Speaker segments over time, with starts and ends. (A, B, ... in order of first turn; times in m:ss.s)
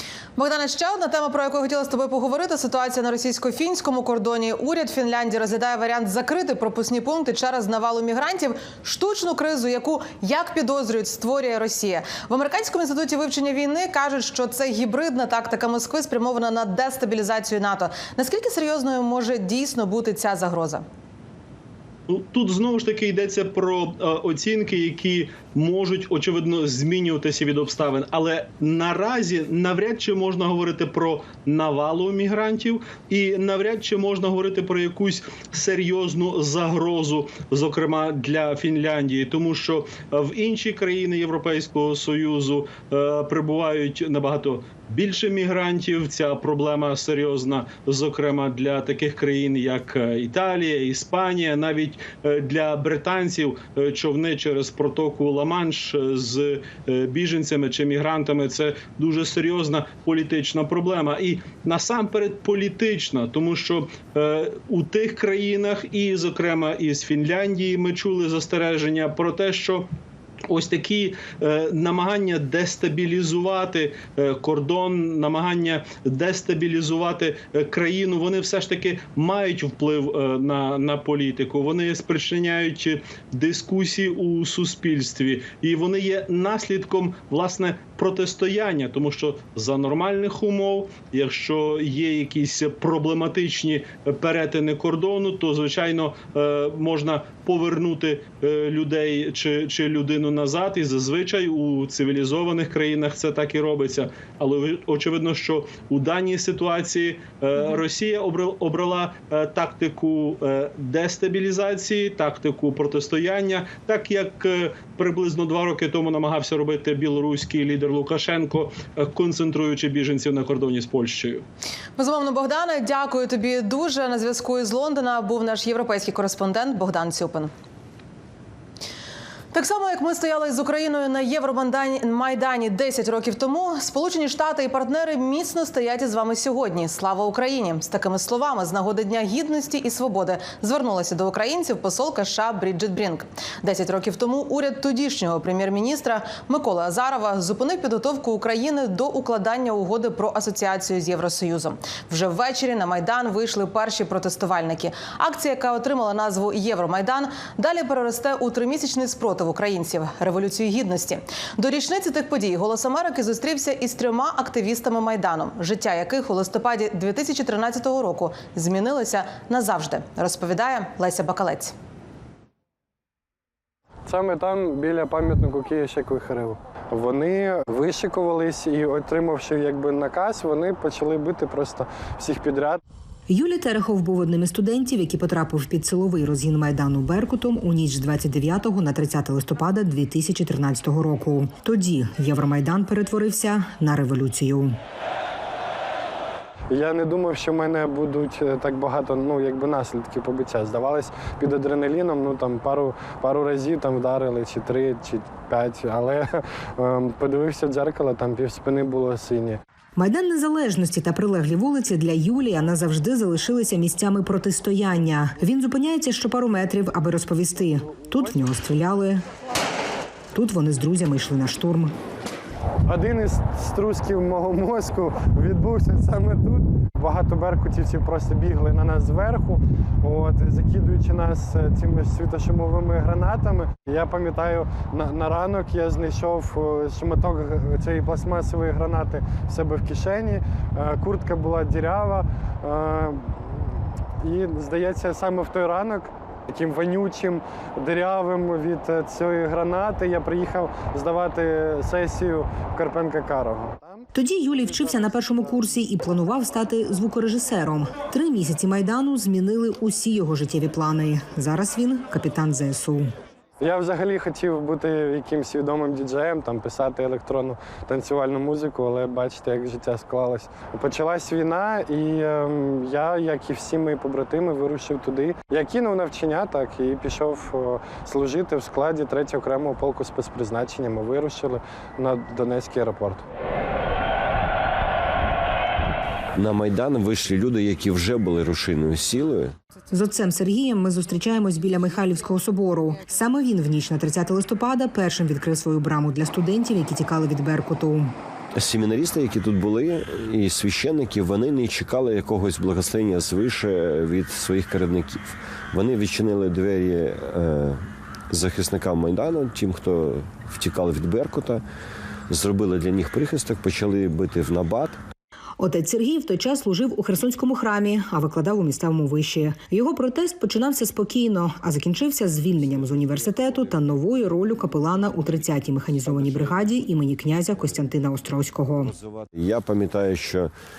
0:00.4-0:20.8 A
0:22.1-1:09.9 B
1:10.5-2:01.4 B
2:02.0-2:07.5 A
2:09.5-2:51.7 A
2:54.1-3:02.8 C
3:03.3-3:14.7 D
3:16.7-3:29.6 C
3:30.0-3:39.2 D
3:40.3-3:41.9 D
3:42.9-4:14.1 C
4:14.1-4:23.1 D
4:23.6-4:43.2 C
4:46.4-4:49.5 E
4:49.9-4:58.1 D
4:58.5-5:11.6 E
5:12.3-5:15.0 E
5:15.6-5:28.9 D
5:22.6-5:23.7 E
5:25.0-5:26.8 E
5:28.8-5:30.5 E